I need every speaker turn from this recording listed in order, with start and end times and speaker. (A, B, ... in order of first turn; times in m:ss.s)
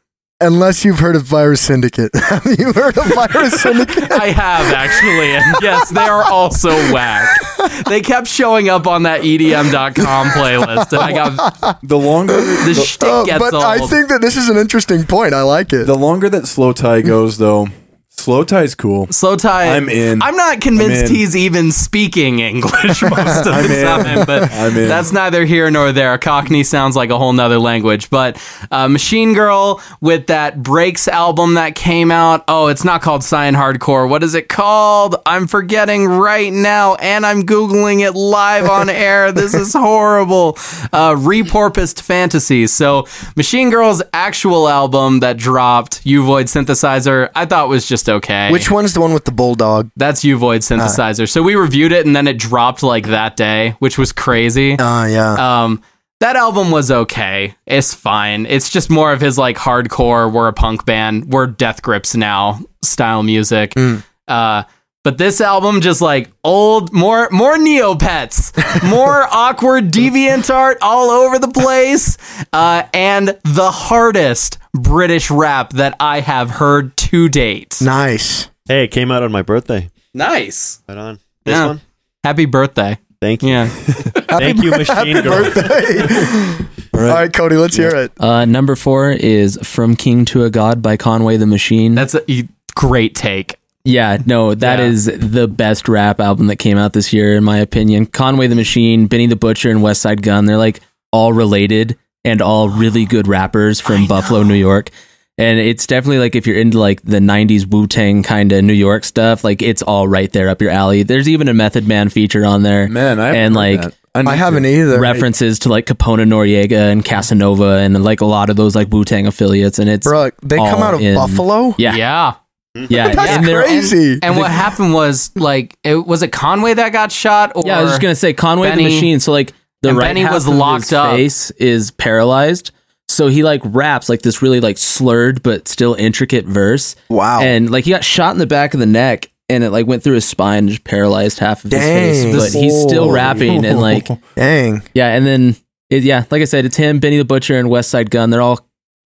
0:00.4-0:06.0 A
0:03.9-0:11.5 B
0:10.8-0:11.8 A
0:11.8-0:12.9 C
0:12.3-0:15.9 A
0:12.6-0:14.0 B
0:15.8-0:19.1 C
0:19.1-0:48.7 B
0:19.6-0:21.2 C
0:23.4-0:25.1 C
0:24.1-0:24.4 A
0:48.5-0:49.9 A
0:50.0-0:54.8 B
0:54.8-0:55.4 A
0:55.4-1:17.8 B
1:03.8-1:04.0 A
1:17.8-1:18.5 A
1:18.7-1:19.9 D
1:20.1-1:20.8 B
1:20.9-1:21.8 D
1:21.4-1:23.8 B
1:23.2-1:26.1 D
1:23.9-1:24.2 C
1:24.3-1:28.1 A
1:26.9-1:27.2 C
1:28.2-1:32.0 E
1:31.9-1:33.6 B
1:33.8-1:53.9 E
1:34.6-1:35.0 B
1:43.8-1:44.5 B
1:52.9-1:54.8 C
1:54.2-1:55.2 A
1:54.9-2:02.0 E
2:00.0-2:01.8 A
2:01.8-2:02.4 B
2:02.8-2:03.0 D
2:02.9-2:04.5 E
2:03.0-2:08.0 B
2:03.0-2:04.4 A
2:07.6-2:24.1 E
2:08.6-2:09.1 B
2:09.8-2:11.2 B
2:17.1-2:17.5 A
2:21.7-2:23.4 A
2:22.3-2:24.2 C
2:24.4-2:24.8 A
2:24.9-2:28.6 E